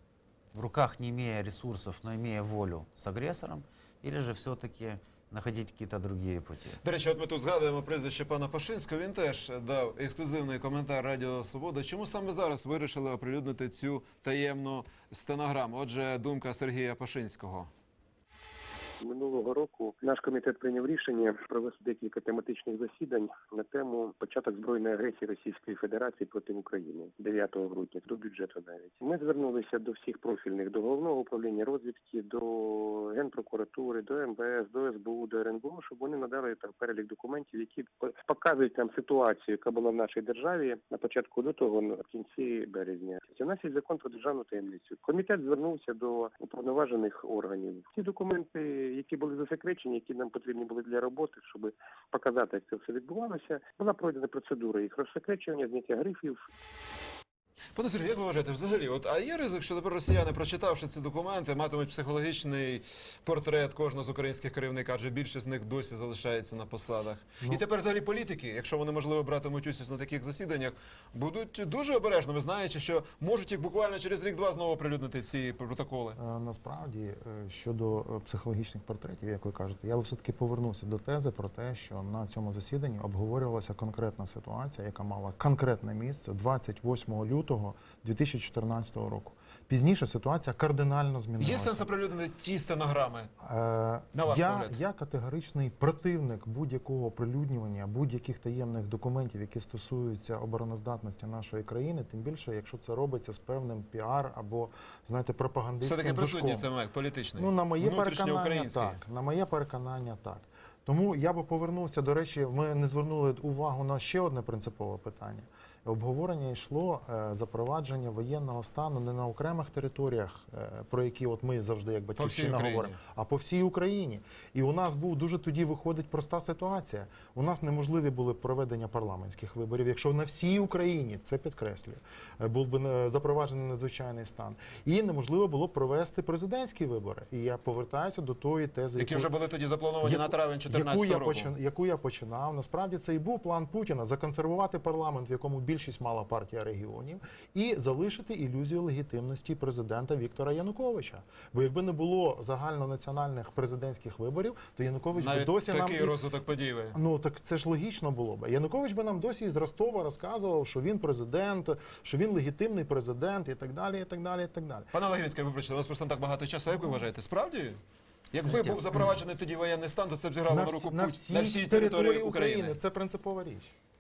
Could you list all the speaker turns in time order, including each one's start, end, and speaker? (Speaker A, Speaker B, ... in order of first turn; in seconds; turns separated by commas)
Speaker A: 0.5-6.8, Speaker B: 6.8-17.7, Speaker C: 19.0-56.4, Speaker B: 57.8-76.2, Speaker D: 76.2-91.9, Speaker B: 91.4-93.3, Speaker D: 93.4-106.7, Speaker B: 94.1-94.8, Speaker B: 105.8-109.0, Speaker D: 107.4-139.3, Speaker B: 122.2-123.0, Speaker B: 139.0-141.5, Speaker D: 140.0-156.3, Speaker B: 155.2-157.0, Speaker D: 156.9-164.9, Speaker B: 164.9-167.8, Speaker B: 168.3-172.8, Speaker D: 168.5-169.1, Speaker D: 170.5-173.8